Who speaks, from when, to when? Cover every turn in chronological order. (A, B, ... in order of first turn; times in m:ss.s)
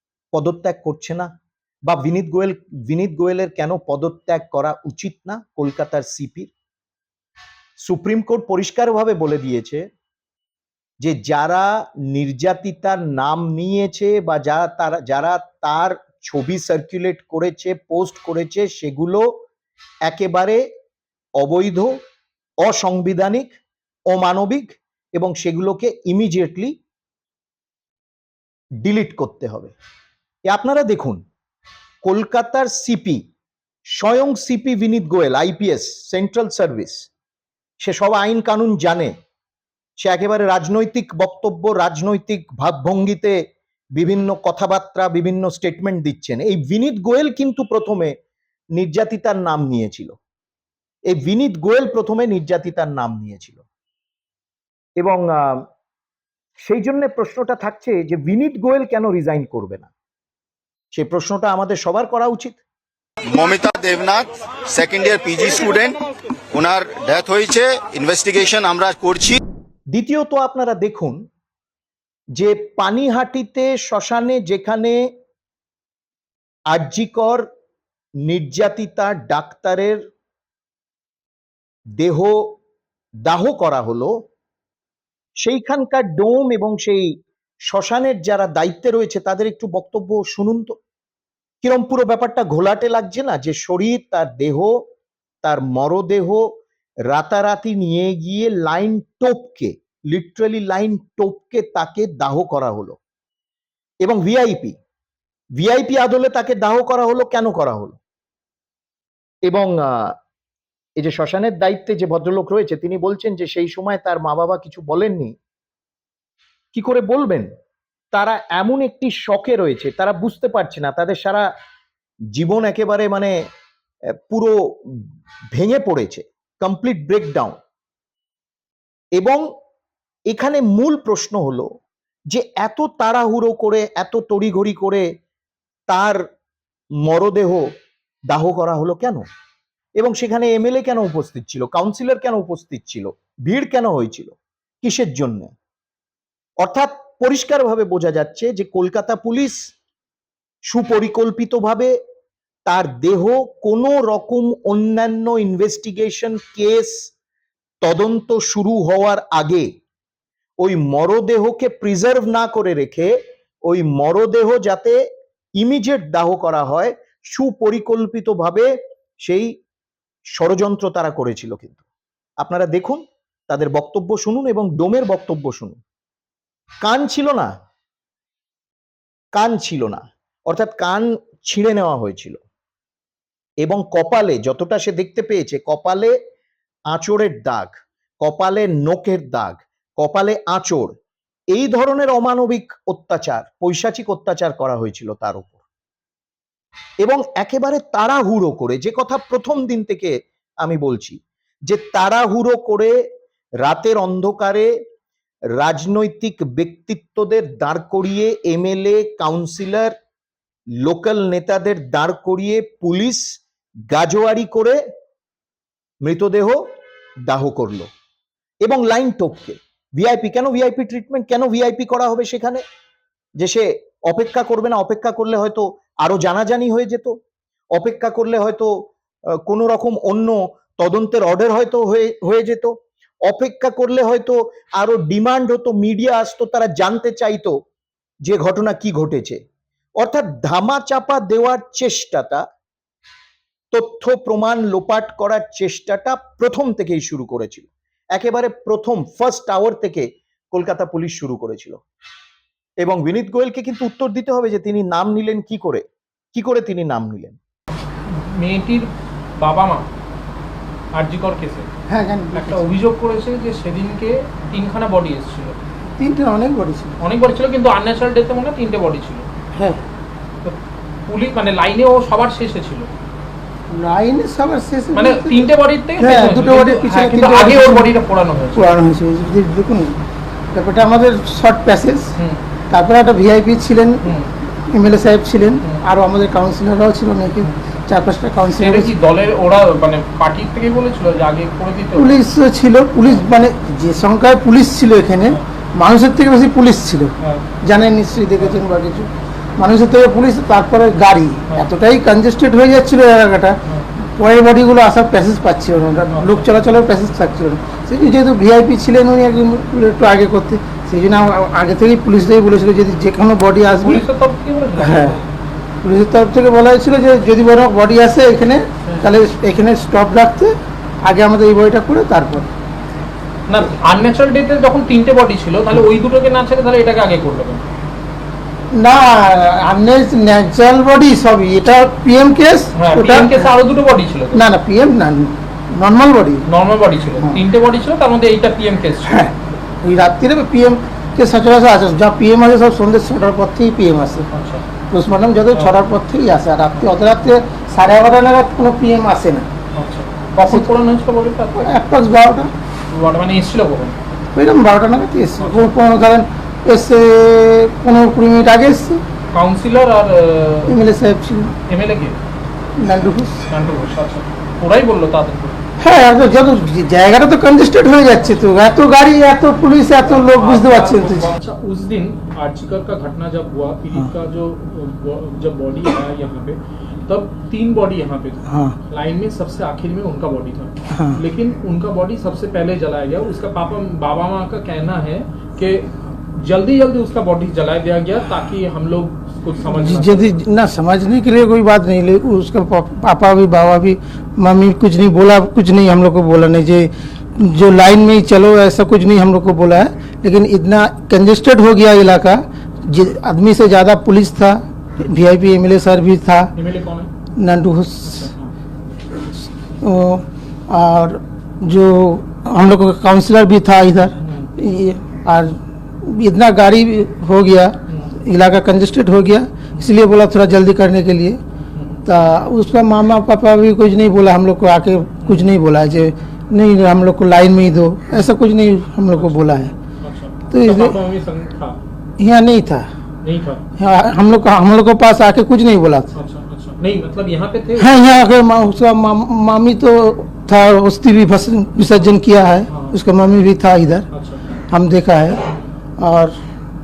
0:00.3-0:01.3 A
0:01.9-0:06.5 A
0:07.8-0:09.9 A
0:11.0-0:19.3 A
0:20.1-0:20.6 A
0:21.4-0:22.0 A
0:22.6-0:23.5 A
0:24.1-0:26.7 A
0:28.8-0:29.7 A
0:30.5-0:31.2 A
0:32.0-0:33.2 A
0:34.0-0:37.1 A
0:37.8-0:39.1 A
0:40.0-0:43.4 A
0:44.0-0:48.2 A
0:48.8-0:50.2 A
0:51.1-0:53.6 A
0:55.0-0:55.6 A
0:56.6-0:59.9 A
1:00.9-1:02.6 A
1:03.3-1:09.4 B
1:09.9-1:11.2 A
1:12.4-1:15.0 A
1:16.7-1:17.4 A
1:18.3-1:20.0 A
1:22.0-1:22.4 A
1:23.2-1:24.1 A
1:25.4-1:27.1 A
1:27.7-1:30.8 A
1:31.6-1:34.8 A
1:35.4-1:36.5 A
1:37.1-1:43.0 A
1:44.0-1:44.8 A
1:45.6-1:48.0 A
1:49.5-1:50.2 A
1:51.0-1:55.4 A
1:56.7-1:57.5 A
1:58.1-2:01.5 A
2:02.3-2:03.4 A
2:04.3-2:04.6 A
2:05.5-2:07.6 A
2:09.2-2:09.4 A
2:10.3-2:11.7 A
2:12.3-2:15.1 A
2:15.9-2:16.2 A
2:17.0-2:17.7 A
2:18.3-2:19.2 A
2:20.0-2:25.5 A
2:26.6-2:29.6 A
2:30.7-2:32.0 A
2:32.7-2:37.1 A
2:37.8-2:39.7 A
2:40.6-2:43.1 A
2:43.7-2:45.0 A
2:45.6-2:48.7 A
2:49.2-2:49.5 A
2:50.4-2:51.8 A
2:52.4-2:55.8 A
2:56.8-2:57.5 A
2:59.3-3:02.4 A
3:03.6-3:06.2 A
3:06.9-3:10.9 A
3:11.5-3:15.6 A
3:17.0-3:23.0 A
3:23.6-3:24.7 A
3:25.6-3:29.9 A
3:30.8-3:33.4 A
3:33.9-3:34.8 A
3:36.0-3:36.6 A
3:37.3-3:37.9 A
3:38.6-3:42.6 A
3:43.4-3:47.2 A
3:47.8-3:48.9 A
3:49.4-3:57.6 A
3:58.2-3:59.4 A
4:00.0-4:02.4 A
4:03.7-4:11.8 A
4:12.8-4:15.8 A
4:16.4-4:17.4 A
4:18.1-4:18.9 C
4:19.4-4:19.9 C
4:21.0-4:21.7 C
4:21.9-4:22.6 D
4:22.3-4:25.6 C
4:26.0-4:27.0 D
4:27.0-4:29.3 C
4:29.6-4:29.8 D
4:30.4-4:32.9 C
4:33.7-4:37.9 D
4:34.9-4:38.7 C
4:38.5-4:40.0 D
4:40.5-4:42.1 D
4:42.7-4:44.0 D
4:44.0-4:44.3 C
4:44.7-4:48.9 D
4:48.6-4:52.2 C
4:52.0-5:14.0 D
5:06.1-5:06.5 C
5:13.8-5:15.2 C
5:14.8-5:15.2 D
5:15.8-5:20.5 D
5:21.0-5:22.5 D
5:23.5-5:27.7 C
5:28.7-5:33.5 D
5:32.8-5:34.4 C
5:34.3-5:36.5 D
5:36.5-5:39.3 C
5:39.0-5:44.3 D
5:44.3-5:44.6 C
5:44.9-5:49.5 D
5:49.8-5:51.8 C
5:51.6-5:52.5 D
5:52.9-5:54.0 C
5:54.4-5:59.0 D
5:55.4-5:55.7 C
5:59.3-6:00.8 C
6:00.6-6:01.5 D
6:01.7-6:02.2 C
6:02.8-6:03.4 D
6:03.5-6:05.6 C
6:05.8-6:11.3 D
6:10.1-6:30.4 C
6:18.5-6:18.8 D
6:20.9-6:21.2 D
6:29.7-6:46.5 D
6:46.6-6:47.1 C
6:47.4-6:48.3 D
6:48.0-6:48.5 C
6:49.8-7:01.4 D
6:54.2-6:54.5 C
6:57.9-6:58.1 C
7:01.8-7:02.1 C
7:02.1-7:09.7 D
7:05.2-7:05.5 C
7:09.2-7:09.4 C
7:10.0-7:11.8 C
7:10.5-7:11.0 D
7:12.2-7:12.9 D
7:13.2-7:13.6 C
7:13.8-7:16.1 D
7:16.2-7:18.0 C
7:17.8-7:24.1 D
7:22.7-7:23.0 C
7:24.1-7:24.5 C
7:24.7-7:25.5 D
7:26.0-7:26.4 D